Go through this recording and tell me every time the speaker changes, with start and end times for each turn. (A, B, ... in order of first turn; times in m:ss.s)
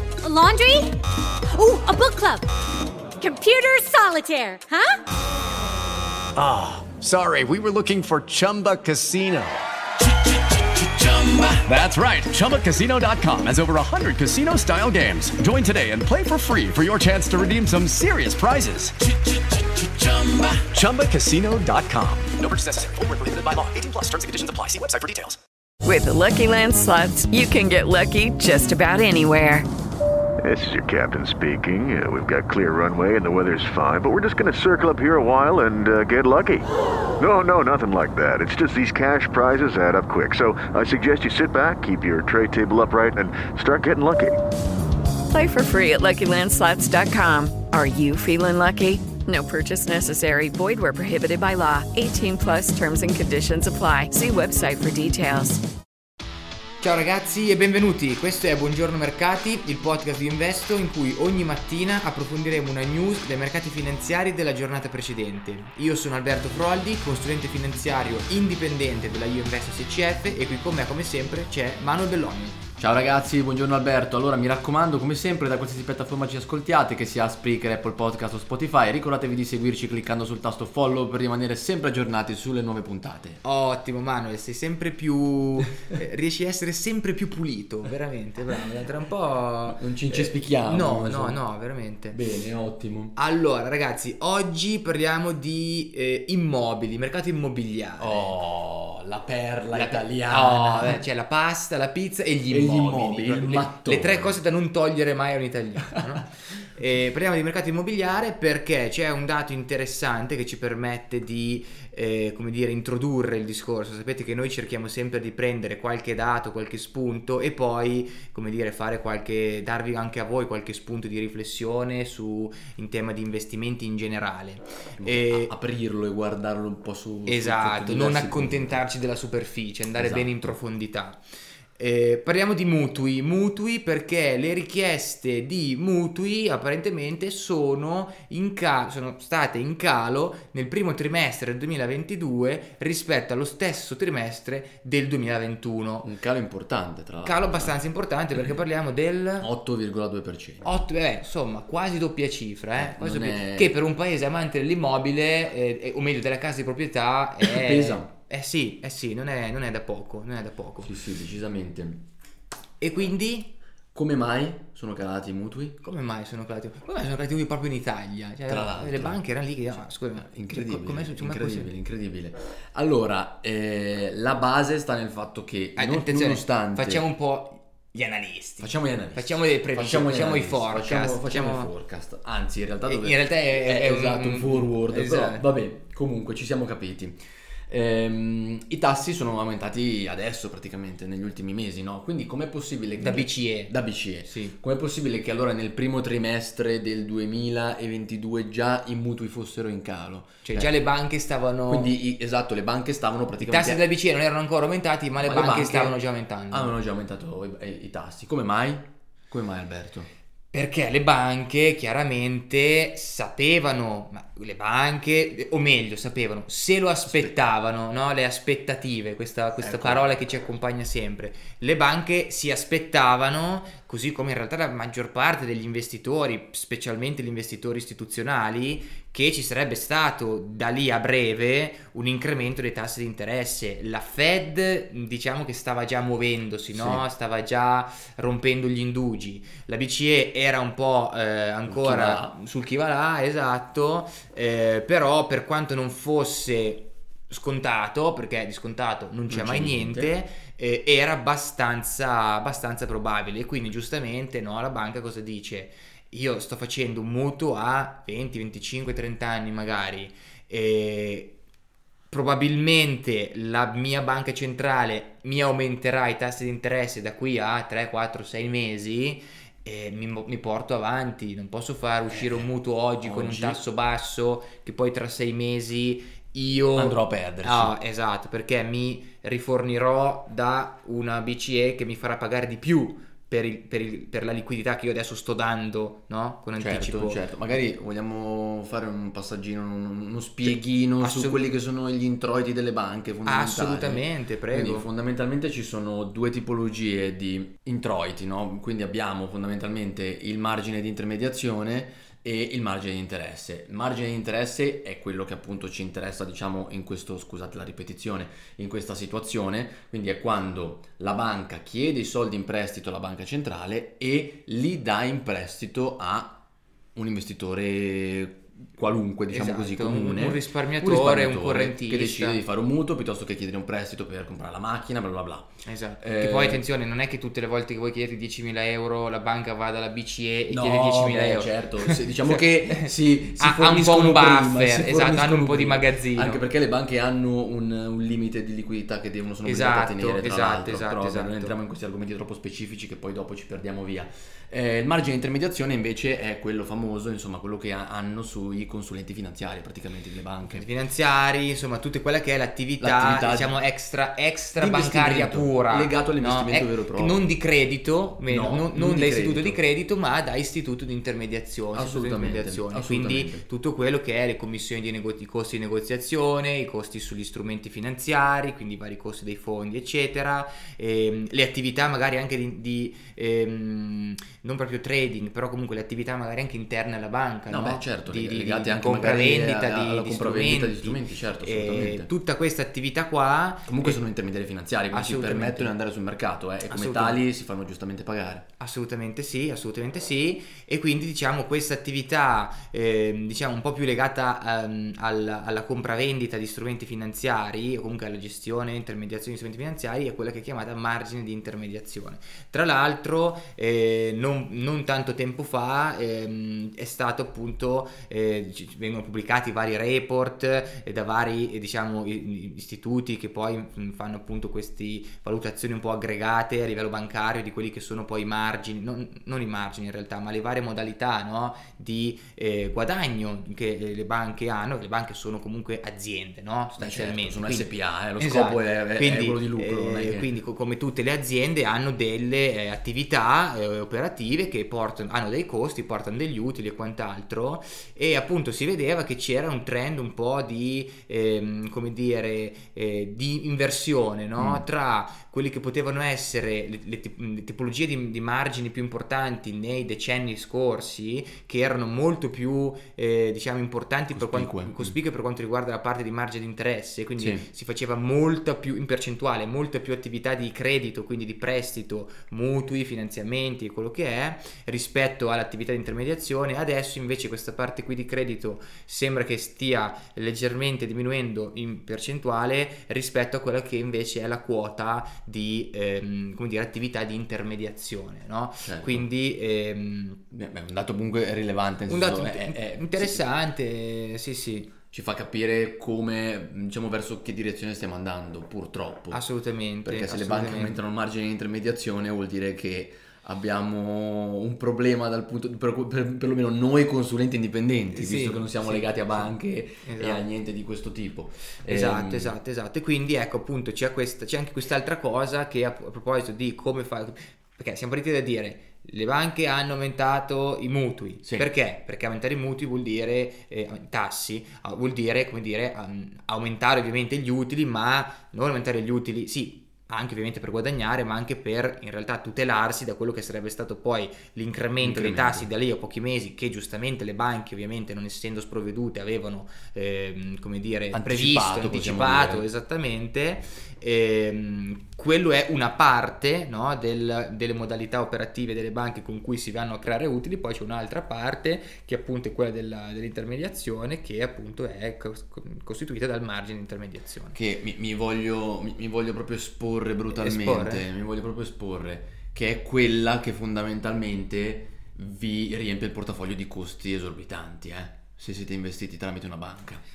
0:00.2-0:02.5 A
0:03.2-0:05.0 A
0:06.4-0:25.4 B
0:25.8-0:29.6 C
0:30.4-0:36.7 D
0:37.2-0:44.4 D
0:45.3-0:55.6 C
0:56.8-1:12.6 E
1:12.8-1:23.4 F
1:23.4-1:32.2 E
1:29.7-1:31.4 F
1:32.1-1:33.1 F
1:33.2-1:38.4 E
1:38.0-1:41.0 F
1:39.7-2:05.5 E
1:42.5-1:44.4 F
2:05.0-2:08.8 F
2:07.3-2:11.2 E
2:09.9-2:10.6 F
2:11.8-2:26.1 E
2:26.0-2:27.8 F
2:27.2-2:29.5 E
2:29.4-2:30.7 F
2:30.6-2:40.9 E
2:32.8-2:33.7 F
2:37.4-2:38.1 F
2:40.8-2:42.0 F
2:42.8-2:43.5 E
2:43.9-2:45.8 F
2:45.8-2:51.7 E
2:48.5-2:49.2 F
2:50.2-2:57.0 F
2:55.8-3:01.7 E
2:58.6-3:20.7 F
3:02.9-3:05.4 E
3:13.0-3:14.5 E
3:20.4-3:21.9 E
3:21.7-3:23.8 F
3:23.4-3:26.8 E
3:25.2-3:26.0 F
3:26.5-3:30.1 F
3:30.5-4:21.3 E
3:37.0-3:37.4 F
3:39.6-3:40.2 F
3:56.7-3:57.0 F
4:01.7-4:02.4 F
4:09.3-4:10.1 F
4:22.1-4:47.3 E
4:32.1-4:32.5 F
4:33.0-4:33.6 F
4:36.7-4:37.8 F
4:46.6-5:16.4 F
4:50.4-4:51.4 E
4:53.2-4:54.9 E
5:17.0-5:26.6 F
5:19.3-5:22.4 E
5:25.6-5:36.4 E
5:30.5-5:50.6 F
5:39.4-5:41.5 E
5:50.5-6:24.0 E
5:52.8-5:53.6 F
5:54.6-5:57.3 F
5:58.3-5:59.6 F
6:01.7-6:03.4 F
6:17.5-6:22.1 F
6:23.7-6:28.5 F
6:24.9-6:25.7 E
6:26.7-6:27.2 E
6:28.6-8:00.2 E
7:06.8-7:10.3 F
7:24.4-7:24.6 F
7:34.1-7:35.0 F
7:37.2-7:37.5 F
7:58.6-7:59.0 F
8:00.3-8:03.2 F
8:01.9-8:04.7 E
8:04.9-8:09.2 F
8:09.1-8:10.8 E
8:09.8-8:22.3 F
8:17.9-8:20.2 E
8:21.7-9:07.4 E
8:31.2-8:31.5 F
8:44.8-8:45.5 F
8:50.9-8:52.4 F
9:07.3-9:19.8 F
9:10.1-9:10.9 E